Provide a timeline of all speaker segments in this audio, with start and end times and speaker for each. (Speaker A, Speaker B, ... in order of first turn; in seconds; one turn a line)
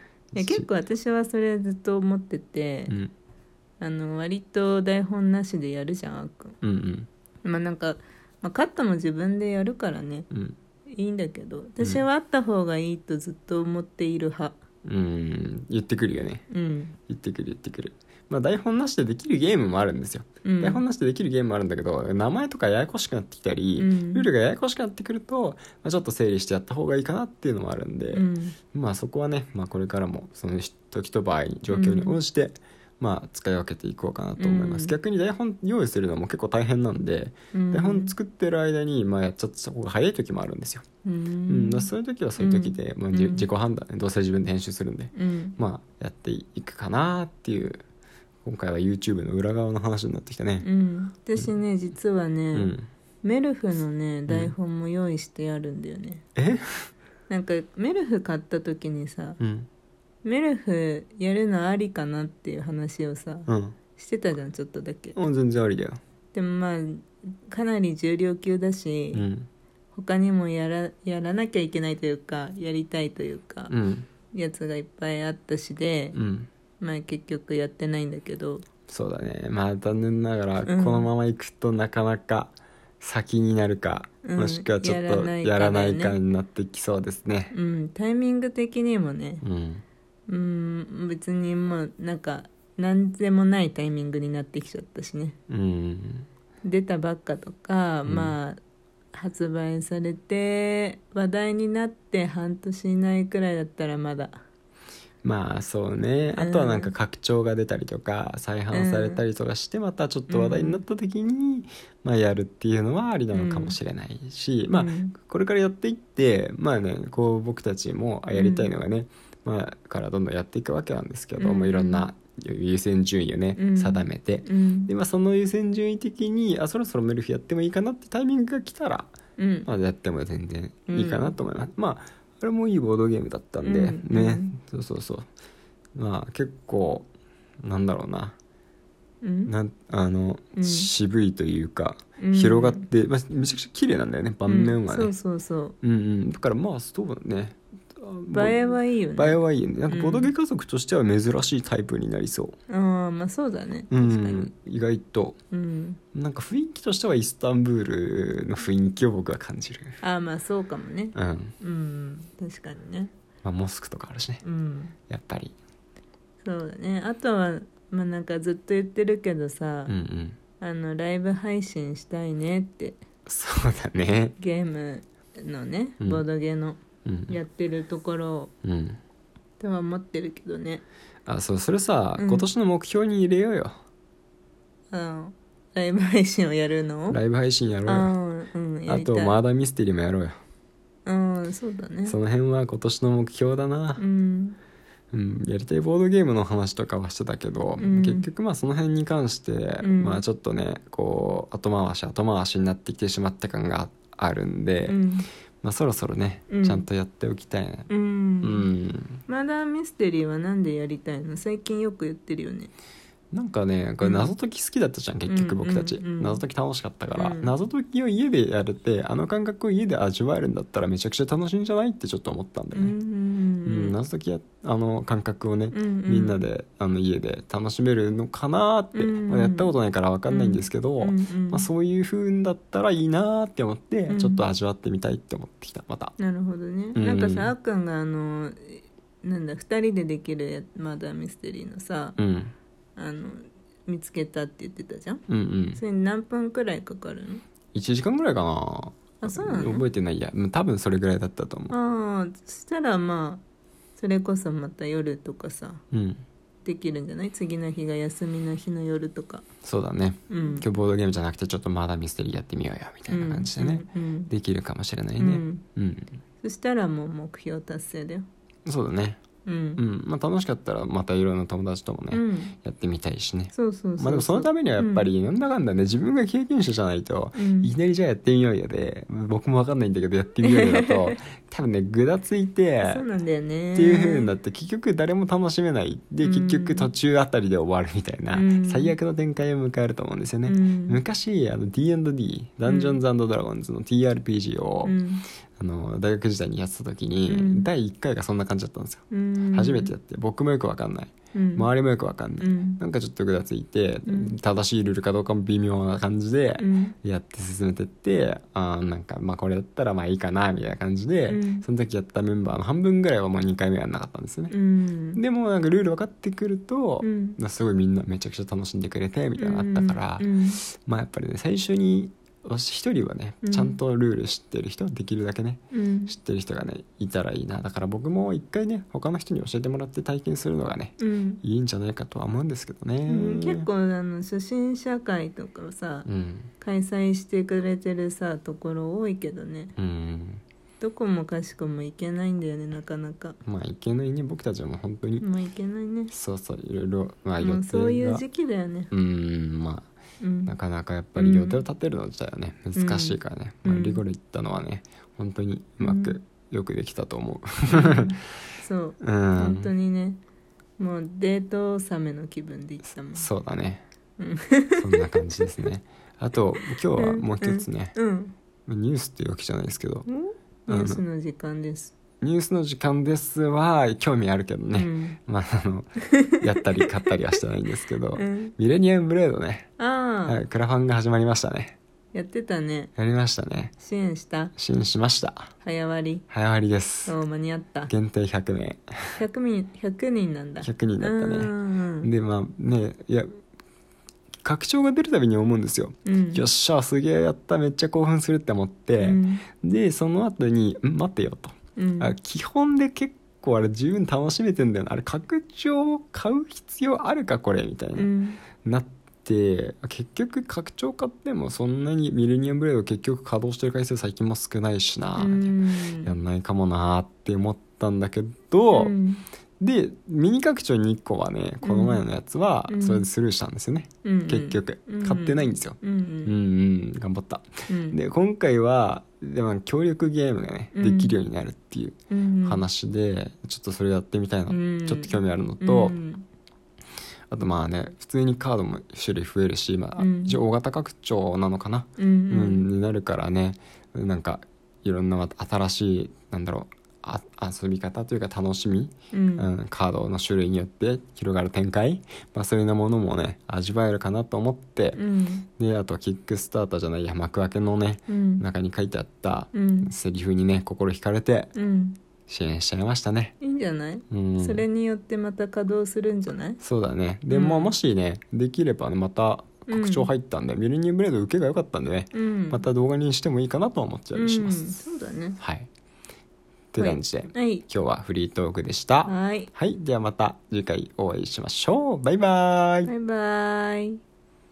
Speaker A: 0.3-0.7
Speaker B: 0.3-2.9
Speaker B: 3.8-6.6
Speaker A: 6.6-7.1
Speaker B: 7.4-10.3
Speaker A: 10.3-10.6
Speaker B: 10.9-14.6
Speaker A: 14.8-16.4
Speaker B: 16.5-16.9
Speaker A: 16.9-40.9
Speaker B: 20.4-20.8
Speaker B: 23.8-24.3
Speaker B: 28.1-28.6
Speaker B: 31.7-32.2
Speaker B: 34.4-35.0
Speaker B: 37.5-38.2
Speaker B: 41.0-43.5
Speaker A: 41.5-47.8
Speaker B: 45.1-45.5
Speaker A: 48.4-50.7
Speaker B: 50.6-56.2
Speaker A: 52.5-52.9
Speaker A: 54.3-54.5
Speaker A: 56.3-56.9
Speaker B: 57.3-59.4
Speaker A: 59.4-59.7
Speaker B: 60.2-65.2
Speaker A: 63.5-63.8
Speaker A: 65.1-66.0
Speaker B: 66.3-69.2
Speaker A: 69.1-69.5
Speaker B: 69.9-73.7
Speaker A: 73.7-74.1
Speaker B: 74.2-76.2
Speaker A: 76.1-76.5
Speaker B: 76.8-78.7
Speaker A: 78.8-87.5
Speaker B: 80.7-81.1
Speaker B: 84.2-86.2
Speaker B: 87.5-89.4
Speaker A: 89.4-89.8
Speaker B: 90.3-95.4
Speaker A: 95.5-96.3
Speaker B: 96.6-98.6
Speaker A: 98.0-98.3
Speaker B: 99.1-104.4
Speaker A: 105.2-135.3
Speaker B: 106.3-106.9
Speaker B: 108.7-109.2
Speaker B: 110.3-110.8
Speaker B: 113.3-113.8
Speaker B: 114.7-115.1
Speaker B: 118.3-118.7
Speaker B: 121.4-122.1
Speaker B: 123.5-124.9
Speaker B: 129.4-129.7
Speaker B: 130.9-131.3
Speaker B: 133.6-134.6
Speaker A: 135.9-137.1
Speaker A: 137.6-138.3
Speaker B: 139.2-139.5
Speaker A: 139.4-145.1
Speaker B: 140.6-140.9
Speaker B: 142.2-142.9
Speaker B: 144.4-145.8
Speaker A: 145.8-152.6
Speaker B: 148.3-150.3
Speaker B: 152.7-154.5
Speaker A: 153.9-155.4
Speaker B: 155.5-156.0
Speaker A: 156.1-160.0
Speaker B: 160.0-163.1
Speaker A: 161.1-161.5
Speaker A: 163.4-164.4
Speaker B: 164.4-164.9
Speaker A: 165.0-165.6
Speaker B: 166.4-169.9
Speaker A: 169.9-170.4
Speaker B: 170.5-173.0
Speaker A: 173.2-174.3
Speaker B: 174.4-178.5
Speaker A: 176.0-176.2
Speaker A: 176.9-177.4
Speaker A: 178.6-179.0
Speaker B: 179.6-180.8
Speaker A: 181.2-183.7
Speaker B: 182.2-182.5
Speaker B: 184.9-187.2
Speaker A: 187.1-188.1
Speaker B: 187.8-189.4
Speaker A: 188.9-190.3
Speaker B: 191.0-192.2
Speaker A: 192.0-194.0
Speaker B: 194.0-194.6
Speaker A: 195.1-205.0
Speaker B: 197.8-198.3
Speaker B: 199.8-200.2
Speaker B: 204.8-205.2
Speaker A: 205.6-207.9
Speaker B: 206.5-206.8
Speaker B: 207.9-208.7
Speaker A: 208.4-209.2
Speaker B: 209.3-212.7
Speaker A: 213.3-222.9
Speaker B: 214.0-214.3
Speaker B: 215.2-216.4
Speaker B: 217.1-217.5
Speaker B: 222.7-224.0
Speaker A: 223.6-236.2
Speaker B: 225.7-226.4
Speaker B: 228.9-229.7
Speaker B: 230.3-231.7
Speaker B: 234.1-234.4
Speaker B: 236.2-242.2
Speaker A: 236.9-237.5
Speaker A: 242.2-242.5
Speaker B: 242.9-245.2
Speaker A: 245.3-245.8
Speaker B: 245.8-247.4
Speaker A: 247.7-251.8
Speaker B: 249.2-249.8
Speaker B: 251.7-253.4
Speaker B: 253.9-255.8
Speaker A: 255.9-256.2
Speaker B: 256.6-259.5
Speaker A: 259.6-266.2
Speaker B: 260.3-260.7
Speaker B: 263.1-264.3
Speaker B: 265.2-265.6
Speaker B: 266.4-268.2
Speaker A: 268.6-269.2
Speaker B: 269.4-269.8
Speaker A: 269.8-283.1
Speaker B: 272.1-272.5
Speaker B: 273.5-275.1
Speaker B: 277.4-277.7
Speaker B: 280.4-281.1
Speaker B: 282.8-284.3
Speaker A: 283.7-295.0
Speaker B: 286.2-286.9
Speaker B: 288.3-289.0
Speaker B: 290.4-291.0
Speaker B: 292.6-293.0
Speaker B: 294.8-295.2
Speaker A: 295.6-314.5
Speaker B: 297.3-297.7
Speaker B: 299.1-299.9
Speaker B: 301.3-301.7
Speaker B: 302.4-302.8
Speaker B: 304.1-304.3
Speaker B: 306.6-306.9
Speaker B: 311.3-311.6
Speaker B: 314.5-315.2
Speaker A: 315.1-333.7
Speaker B: 317.0-317.4
Speaker B: 319.4-320.6
Speaker B: 323.4-323.8
Speaker B: 325.7-326.1
Speaker B: 331.0-331.4
Speaker B: 333.1-336.1
Speaker A: 336.1-336.5
Speaker B: 336.6-339.7
Speaker A: 339.8-340.4
Speaker B: 340.8-343.4
Speaker A: 343.4-345.2
Speaker B: 345.2-346.1
Speaker A: 346.1-348.2
Speaker B: 347.4-348.9
Speaker A: 348.9-349.9
Speaker B: 350.2-350.5
Speaker A: 350.4-358.1
Speaker B: 351.1-351.6
Speaker B: 352.7-354.0
Speaker B: 355.8-356.2
Speaker B: 357.7-360.2
Speaker A: 359.0-359.7
Speaker B: 360.8-363.3
Speaker A: 363.1-363.8
Speaker B: 364.2-365.5
Speaker A: 364.7-367.9
Speaker B: 367.0-368.3
Speaker A: 368.6-370.1
Speaker B: 370.1-372.0
Speaker A: 370.7-371.0
Speaker A: 372.1-379.7
Speaker B: 374.7-375.2
Speaker B: 376.0-377.4
Speaker B: 378.1-378.5
Speaker B: 379.8-380.4
Speaker A: 380.2-381.8
Speaker B: 382.1-382.9
Speaker A: 382.9-383.8
Speaker B: 383.8-384.5
Speaker A: 384.5-385.5
Speaker B: 385.6-386.2
Speaker A: 386.3-387.2
Speaker B: 387.1-387.9
Speaker A: 387.9-389.2
Speaker B: 389.2-392.1
Speaker A: 390.6-393.4
Speaker A: 394.4-418.9
Speaker B: 396.1-396.4
Speaker B: 399.0-399.5
Speaker B: 401.8-402.1
Speaker B: 407.9-408.5
Speaker B: 415.2-416.1
Speaker B: 418.7-419.2
Speaker A: 419.6-435.9
Speaker B: 421.6-422.0
Speaker B: 422.7-423.1
Speaker B: 424.0-426.4
Speaker B: 427.7-428.0
Speaker B: 430.7-431.2
Speaker B: 432.1-432.6
Speaker B: 434.5-436.2
Speaker A: 437.3-461.5
Speaker B: 439.9-440.4
Speaker B: 442.0-442.7
Speaker B: 449.1-449.5
Speaker B: 454.9-455.5
Speaker B: 458.1-458.4
Speaker B: 459.5-459.9
Speaker B: 461.5-462.0
Speaker A: 462.2-463.4
Speaker B: 463.4-466.6
Speaker A: 464.1-464.6
Speaker A: 466.6-474.8
Speaker B: 467.3-467.8
Speaker B: 469.7-470.1
Speaker B: 472.1-472.6
Speaker B: 474.1-475.4
Speaker A: 475.4-475.7
Speaker A: 476.7-482.9
Speaker B: 476.8-477.6
Speaker B: 479.0-479.5
Speaker B: 482.9-484.0